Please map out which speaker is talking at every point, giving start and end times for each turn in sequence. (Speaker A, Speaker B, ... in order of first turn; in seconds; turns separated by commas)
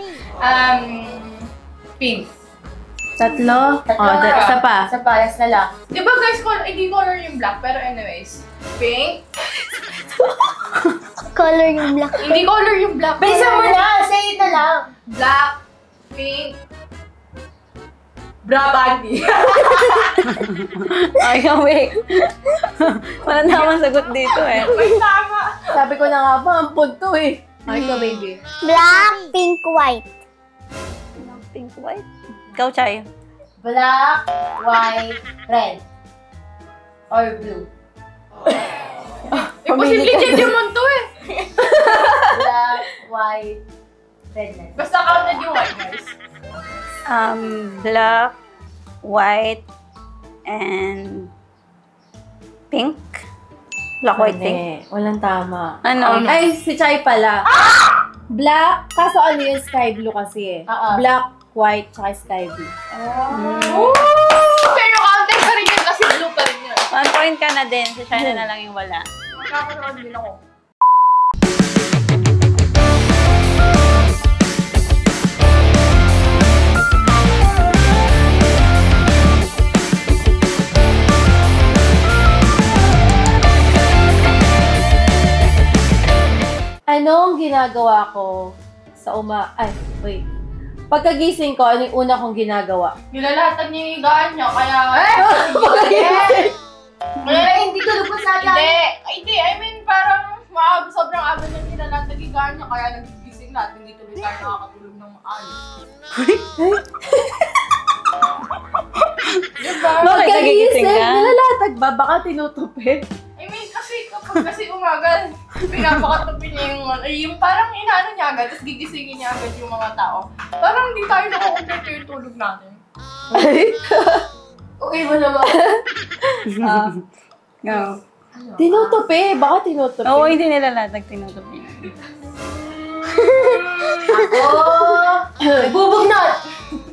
Speaker A: 0.4-2.3, Speaker B: 3.2-4.9, Speaker C: 3.9-5.7, Speaker A: 4.1-4.6, Speaker A: 5.9-9.2, Speaker D: 11.3-12.4, Speaker A: 12.2-13.8, Speaker C: 13.2-14.9, Speaker A: 15.1-15.6, Speaker A: 16.1-16.6, Speaker A: 18.4-20.3, Speaker E: 20.2-24.8, Speaker A: 23.3-25.8, Speaker B: 25.7-28.4, Speaker E: 27.7-28.2, Speaker D: 28.6-30.1, Speaker E: 31.2-33.1, Speaker C: 33.6-35.8, Speaker C: 37.1-37.7, Speaker B: 39.3-40.6, Speaker A: 39.3-41.1, Speaker B: 41.6-42.4, Speaker C: 42.3-43.6, Speaker C: 44.3-44.7, Speaker A: 44.8-46.1, Speaker E: 47.1-48.3, Speaker E: 49.0-49.6, Speaker E: 50.5-51.3, Speaker E: 52.7-53.2, Speaker E: 54.0-54.6, Speaker B: 54.1-57.5, Speaker E: 55.8-56.3, Speaker A: 56.0-56.4, Speaker B: 58.3-62.7, Speaker C: 60.7-61.0, Speaker C: 62.9-63.9, Speaker E: 63.3-64.0, Speaker A: 63.7-66.9, Speaker E: 66.9-69.0, Speaker B: 68.1-68.5, Speaker A: 69.3-70.4, Speaker B: 86.9-90.2, Speaker B: 90.9-92.9, Speaker A: 93.1-96.5, Speaker C: 95.1-96.4, Speaker B: 95.2-96.5, Speaker A: 97.2-97.7, Speaker C: 97.3-98.8, Speaker A: 98.4-105.6, Speaker E: 106.1-106.4, Speaker B: 106.6-107.4, Speaker E: 109.0-109.5, Speaker A: 109.6-110.2, Speaker B: 110.0-113.0, Speaker E: 110.0-111.3, Speaker A: 113.4-122.8, Speaker B: 123.3-124.2, Speaker C: 124.8-125.6, Speaker B: 126.3-126.7, Speaker E: 126.5-127.0, Speaker E: 127.6-128.0, Speaker A: 127.7-128.0, Speaker C: 128.3-129.0, Speaker B: 128.6-130.4, Speaker E: 130.0-131.9, Speaker B: 133.1-134.0, Speaker C: 134.1-136.4, Speaker B: 135.4-135.8